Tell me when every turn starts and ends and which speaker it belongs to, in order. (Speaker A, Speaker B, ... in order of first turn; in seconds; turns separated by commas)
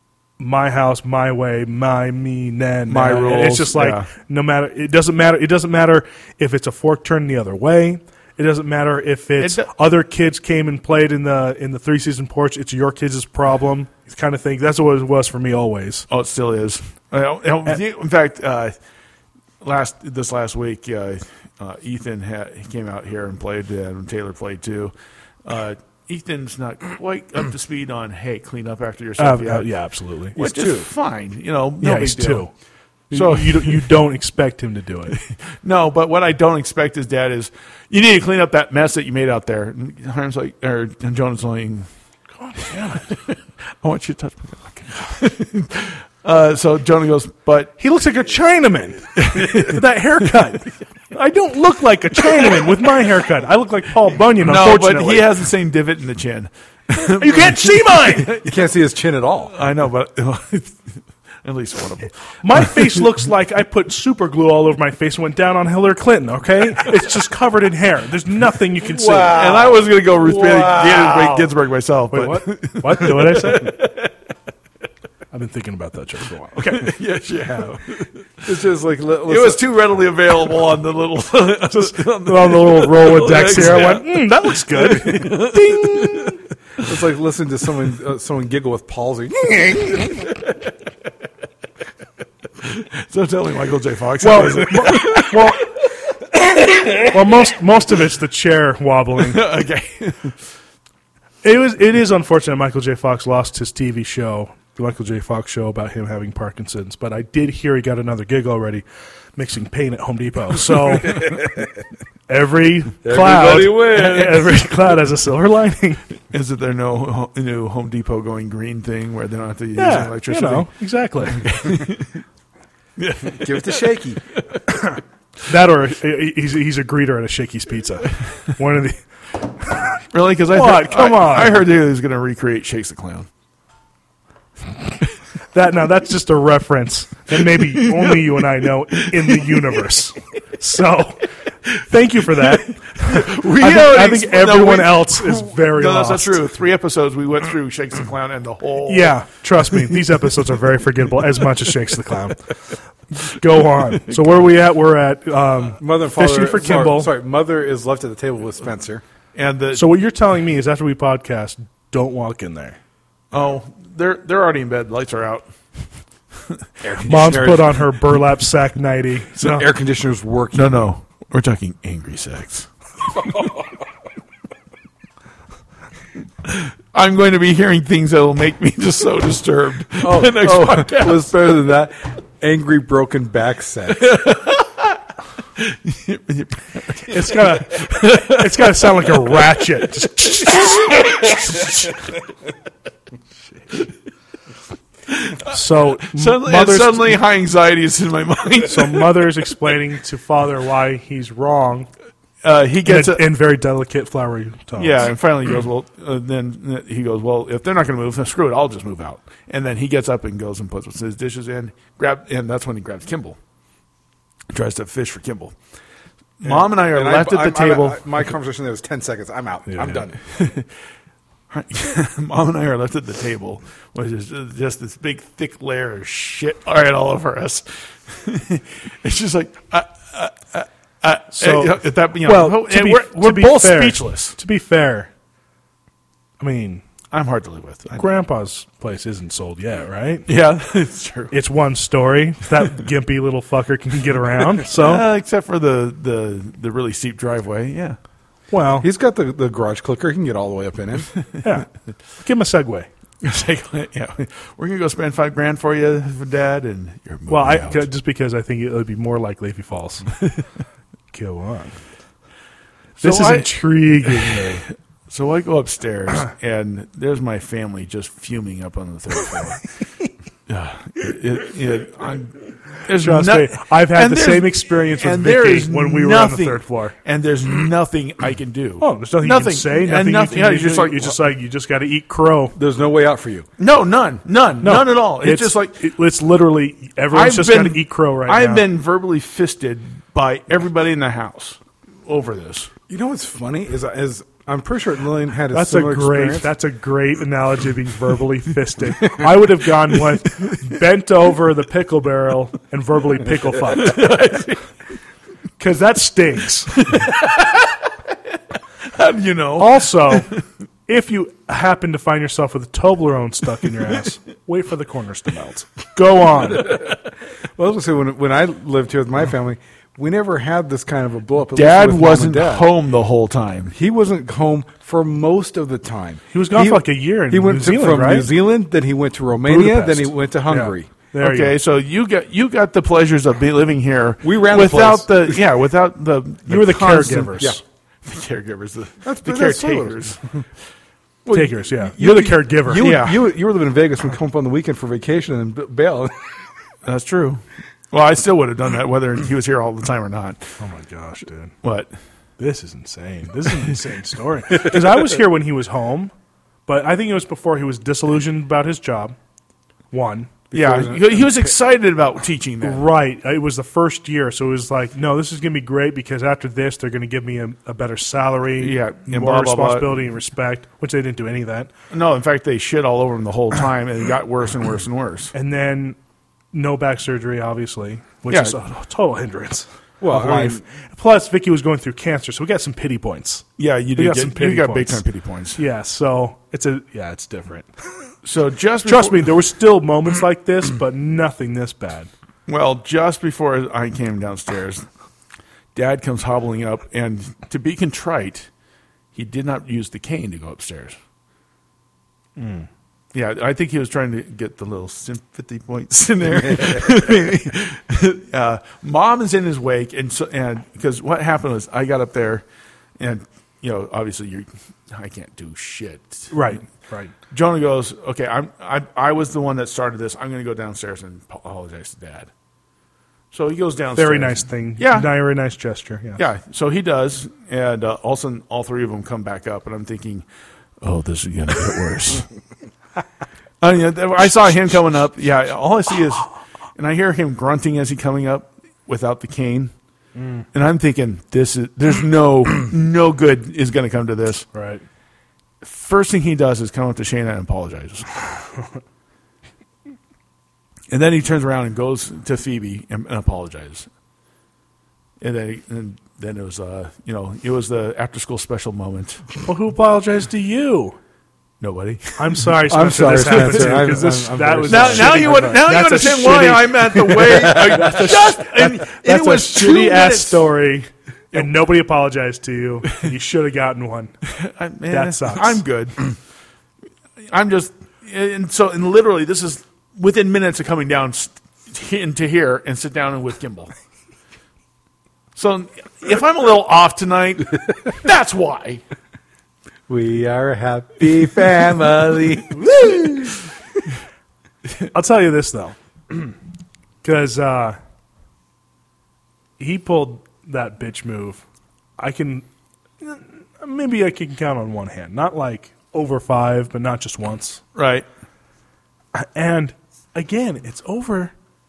Speaker A: 0.4-16.1, Speaker B: 2.9-4.1, Speaker B: 9.4-9.7, Speaker B: 16.1-18.7, Speaker B: 19.6-24.9, Speaker B: 25.4-29.7, Speaker A: 29.2-30.4, Speaker C: 30.4-30.9, Speaker B: 30.4-32.5, Speaker A: 31.8-32.5, Speaker B: 33.1-33.9, Speaker A: 33.1-35.2, Speaker B: 35.1-41.9, Speaker A: 42.4-43.1, Speaker B: 42.9-47.7, Speaker A: 47.8-55.4, Speaker B: 49.1-50.4, Speaker B: 54.4-58.5, Speaker A: 56.9-58.3, Speaker C: 58.3-59.5, Speaker B: 59.5-60.8, Speaker B: 61.4-63.0, Speaker A: 62.4-69.3, Speaker C: 68.9-71.5, Speaker B: 69.1-74.1, Speaker A: 72.1-73.8, Speaker A: 75.3-76.9, Speaker B: 76.5-78.2, Speaker C: 78.4-79.6, Speaker B: 79.2-86.4, Speaker A: 81.7-86.2, Speaker C: 86.8-90.2, Speaker B: 92.6-95.5, Speaker A: 94.2-95.7, Speaker A: 97.0-99.5, Speaker B: 99.2-100.3, Speaker A: 101.4-108.8, Speaker A: 109.3-111.5, Speaker A: 112.3-116.0, Speaker C: 113.0-114.5, Speaker B: 116.3-120.7, Speaker A: 119.7-121.5, Speaker B: 121.3-122.2, Speaker B: 123.0-124.6, Speaker C: 123.2-124.2, Speaker A: 124.7-130.0, Speaker B: 130.1-133.3, Speaker A: 130.5-131.6, Speaker A: 135.5-146.4, Speaker B: 137.5-139.7, Speaker B: 142.9-149.2, Speaker A: 148.8-157.1, Speaker B: 154.0-154.4, Speaker C: 155.8-159.0, Speaker B: 159.3-159.8, Speaker A: 159.7-162.8, Speaker B: 163.3-165.5, Speaker C: 166.8-167.8, Speaker A: 167.0-169.6, Speaker C: 169.4-170.9, Speaker B: 170.5-172.7, Speaker B: 176.4-181.3, Speaker C: 180.0-184.2, Speaker B: 184.0-185.0, Speaker B: 185.6-188.9, Speaker A: 187.1-190.7, Speaker B: 190.4-192.0, Speaker B: 195.1-199.2, Speaker A: 195.5-197.2, Speaker A: 198.7-201.9, Speaker B: 202.4-203.2, Speaker A: 202.8-205.0, Speaker B: 204.8-213.4, Speaker B: 214.5-215.6, Speaker B: 216.4-218.0, Speaker C: 216.4-220.3, Speaker A: 219.7-220.0, Speaker B: 220.3-220.7, Speaker B: 221.5-234.4, Speaker A: 231.3-235.1, Speaker A: 236.4-236.8, Speaker B: 237.1-238.1, Speaker A: 238.0-240.3, Speaker B: 240.2-241.3, Speaker A: 241.3-245.0, Speaker B: 244.7-248.0, Speaker A: 248.5-248.9, Speaker C: 248.8-251.1, Speaker A: 251.4-251.7, Speaker A: 252.2-252.9, Speaker B: 253.2-257.9, Speaker A: 257.3-260.2, Speaker A: 261.1-261.8, Speaker B: 263.0-264.5, Speaker A: 263.0-264.6, Speaker B: 265.1-269.6, Speaker B: 270.5-281.2, Speaker A: 272.9-276.9, Speaker A: 278.8-282.5, Speaker C: 282.6-283.5, Speaker B: 283.6-285.8, Speaker A: 284.6-288.6, Speaker B: 287.1-292.7, Speaker C: 292.9-296.5, Speaker A: 295.5-304.0, Speaker B: 303.7-304.6, Speaker A: 305.6-306.8, Speaker B: 306.8-308.1, Speaker B: 308.8-310.4, Speaker A: 309.6-310.3, Speaker A: 310.9-316.8, Speaker C: 317.6-322.7, Speaker B: 321.5-323.7, Speaker C: 323.7-330.9, Speaker A: 326.3-328.3, Speaker A: 329.4-331.5, Speaker B: 331.2-337.5, Speaker C: 334.2-335.4, Speaker A: 336.5-337.6, Speaker B: 338.0-340.2, Speaker C: 339.0-340.1, Speaker C: 341.2-346.1, Speaker A: 341.3-342.9, Speaker B: 342.8-343.2, Speaker B: 346.8-350.5, Speaker A: 350.6-351.5, Speaker B: 351.6-351.9, Speaker A: 352.4-356.1, Speaker A: 356.6-359.1, Speaker A: 359.9-360.3, Speaker C: 360.5-361.3, Speaker B: 360.5-362.9, Speaker A: 362.6-371.7, Speaker B: 368.6-370.0, Speaker B: 371.9-375.3, Speaker A: 375.3-376.0, Speaker A: 376.5-385.0, Speaker B: 378.3-378.6, Speaker C: 380.0-380.6, Speaker B: 383.6-385.6, Speaker A: 385.6-387.7, Speaker B: 388.2-389.3, Speaker A: 388.8-392.1, Speaker B: 392.5-394.8, Speaker B: 395.7-398.5, Speaker B: 399.1-401.0, Speaker A: 402.4-402.7, Speaker B: 403.1-412.4, Speaker B: 413.0-416.3, Speaker A: 416.3-417.1, Speaker B: 417.3-422.3, Speaker B: 423.3-425.1, Speaker A: 423.9-426.2, Speaker B: 426.2-430.2, Speaker B: 430.8-432.3, Speaker B: 433.6-439.7, Speaker A: 440.1-440.4, Speaker B: 440.5-444.4, Speaker A: 444.5-444.8, Speaker B: 445.6-448.1, Speaker B: 450.9-453.9, Speaker B: 455.2-459.2, Speaker A: 459.4-461.0, Speaker B: 461.6-462.4, Speaker A: 462.2-474.1, Speaker C: 462.7-465.9, Speaker B: 463.2-463.8, Speaker B: 464.7-470.5, Speaker C: 467.1-468.1, Speaker B: 474.2-476.1, Speaker A: 474.9-475.6, Speaker B: 477.2-483.7, Speaker B: 485.4-488.8, Speaker C: 489.9-493.4, Speaker A: 494.9-496.3, Speaker A: 497.0-497.8, Speaker A: 499.6-501.4, Speaker A: 502.0-502.4, Speaker A: 503.0-507.6, Speaker B: 507.7-508.1, Speaker A: 509.1-511.3